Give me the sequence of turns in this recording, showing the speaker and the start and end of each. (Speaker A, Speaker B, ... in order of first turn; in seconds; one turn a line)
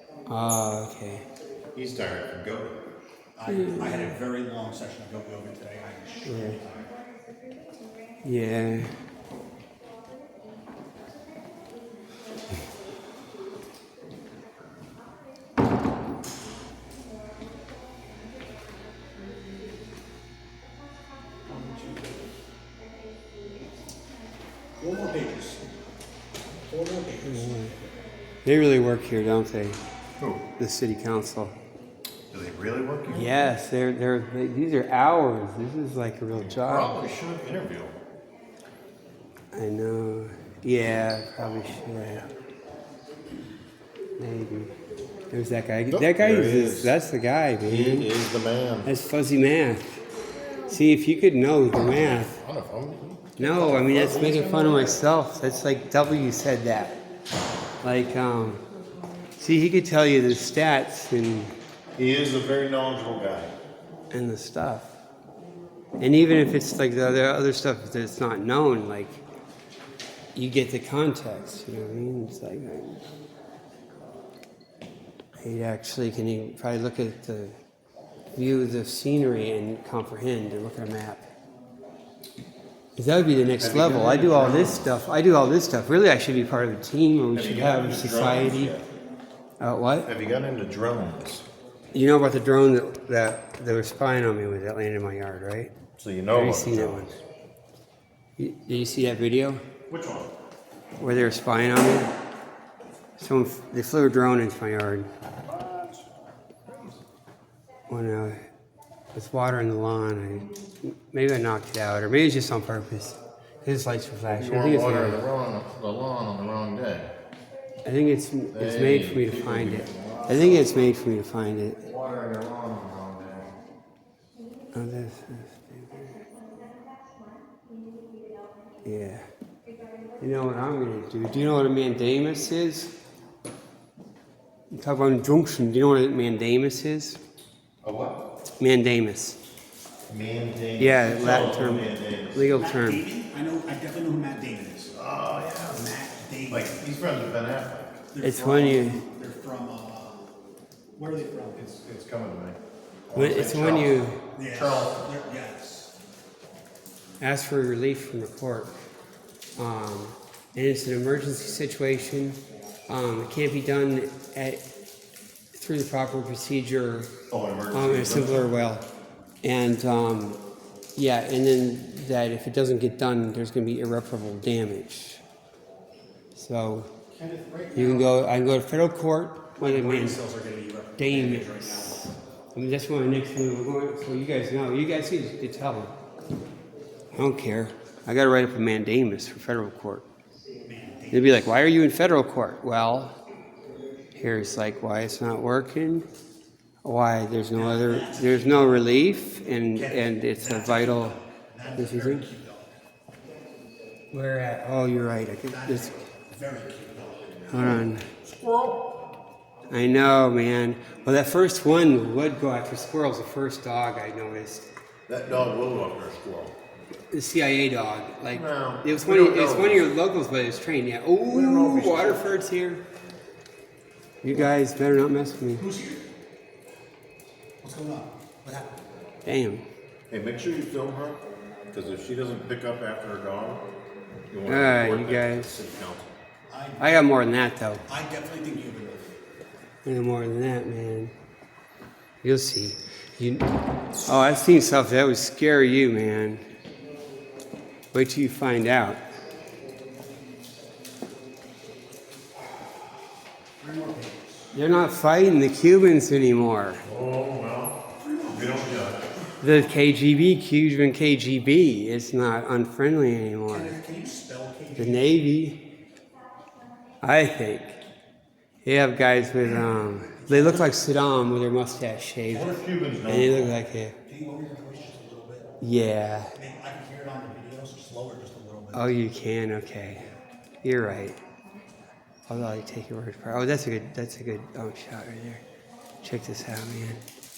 Speaker A: 0.3-1.2
Speaker B: 1.7-2.8
Speaker C: 3.4-6.9
Speaker A: 3.5-4.1
Speaker A: 6.2-6.6
Speaker A: 8.2-8.9
Speaker C: 21.4-22.4
Speaker C: 24.8-25.7
Speaker C: 26.6-27.9
Speaker A: 27.2-27.7
Speaker A: 28.4-29.8
Speaker B: 30.2-30.5
Speaker A: 30.5-31.6
Speaker B: 32.3-33.3
Speaker A: 33.1-37.1
Speaker B: 36.3-37.9
Speaker A: 39.5-42.2
Speaker B: 41.4-42.2
Speaker A: 44.2-44.7
Speaker A: 45.3-48.1
Speaker B: 45.9-46.9
Speaker B: 47.6-48.9
Speaker A: 48.8-49.9
Speaker A: 50.5-52.4
Speaker B: 51.7-55.0
Speaker A: 53.4-57.0
Speaker A: 57.8-58.6
Speaker A: 59.4-61.5
Speaker B: 62.0-63.5
Speaker A: 64.1-64.9
Speaker A: 66.0-69.2
Speaker A: 70.3-73.0
Speaker A: 75.4-77.5
Speaker A: 78.3-81.2
Speaker A: 83.0-88.8
Speaker B: 83.4-84.9
Speaker B: 87.3-88.8
Speaker A: 89.6-90.1
Speaker B: 90.0-91.5
Speaker A: 91.9-97.2
Speaker B: 95.9-97.1
Speaker A: 98.4-99.6
Speaker B: 99.9-100.3
Speaker A: 101.0-102.1
Speaker A: 103.2-105.1
Speaker B: 105.5-106.0
Speaker A: 107.9-108.3
Speaker A: 109.1-115.3
Speaker B: 114.3-117.1
Speaker A: 117.8-121.8
Speaker B: 118.5-120.9
Speaker B: 121.8-123.5
Speaker A: 124.7-126.2
Speaker A: 128.8-129.2
Speaker A: 130.2-132.9
Speaker A: 134.7-137.2
Speaker B: 137.8-138.2
Speaker A: 138.6-139.4
Speaker B: 140.1-142.5
Speaker A: 140.8-143.1
Speaker C: 141.2-141.5
Speaker C: 142.4-145.0
Speaker B: 144.9-145.9
Speaker C: 145.7-146.8
Speaker B: 146.5-148.1
Speaker C: 148.1-150.3
Speaker A: 148.2-149.0
Speaker C: 150.9-151.6
Speaker B: 151.5-152.6
Speaker B: 153.1-155.0
Speaker A: 153.1-154.2
Speaker C: 154.3-155.9
Speaker A: 157.2-158.7
Speaker A: 159.6-164.6
Speaker A: 165.5-168.8
Speaker B: 167.3-168.5
Speaker A: 169.4-170.4
Speaker A: 170.9-175.2
Speaker A: 176.3-176.9
Speaker C: 177.1-178.2
Speaker A: 177.7-180.2
Speaker C: 179.6-182.1
Speaker A: 181.0-185.9
Speaker A: 187.1-190.1
Speaker C: 190.6-191.6
Speaker A: 191.1-193.2
Speaker A: 194.1-196.1
Speaker A: 196.8-201.2
Speaker C: 197.5-198.9
Speaker C: 199.7-202.8
Speaker A: 201.8-202.2
Speaker A: 204.1-205.9
Speaker C: 205.4-207.8
Speaker A: 207.5-208.1
Speaker B: 207.5-208.9
Speaker A: 209.7-214.7
Speaker B: 215.1-216.6
Speaker A: 217.1-222.8
Speaker B: 218.3-219.9
Speaker B: 221.2-222.4
Speaker A: 224.2-225.6
Speaker C: 225.6-226.1
Speaker C: 227.6-228.8
Speaker A: 229.2-229.6
Speaker B: 230.1-233.6
Speaker B: 234.3-236.1
Speaker A: 234.4-235.5
Speaker C: 236.5-237.1
Speaker A: 236.8-237.8
Speaker C: 237.9-239.1
Speaker A: 239.8-241.1
Speaker A: 242.2-243.5
Speaker A: 244.0-246.4
Speaker A: 247.9-249.0
Speaker C: 253.6-254.5
Speaker A: 254.5-256.8
Speaker B: 256.8-259.1
Speaker C: 257.9-259.3
Speaker A: 259.4-263.8
Speaker C: 263.5-265.1
Speaker A: 264.8-265.7
Speaker A: 267.0-267.8
Speaker A: 268.6-273.9
Speaker B: 269.4-269.7
Speaker C: 270.1-270.8
Speaker B: 272.3-273.6
Speaker C: 274.0-275.5
Speaker A: 275.6-276.3
Speaker C: 276.4-278.9
Speaker A: 278.7-281.1
Speaker A: 282.3-285.4
Speaker A: 286.0-287.0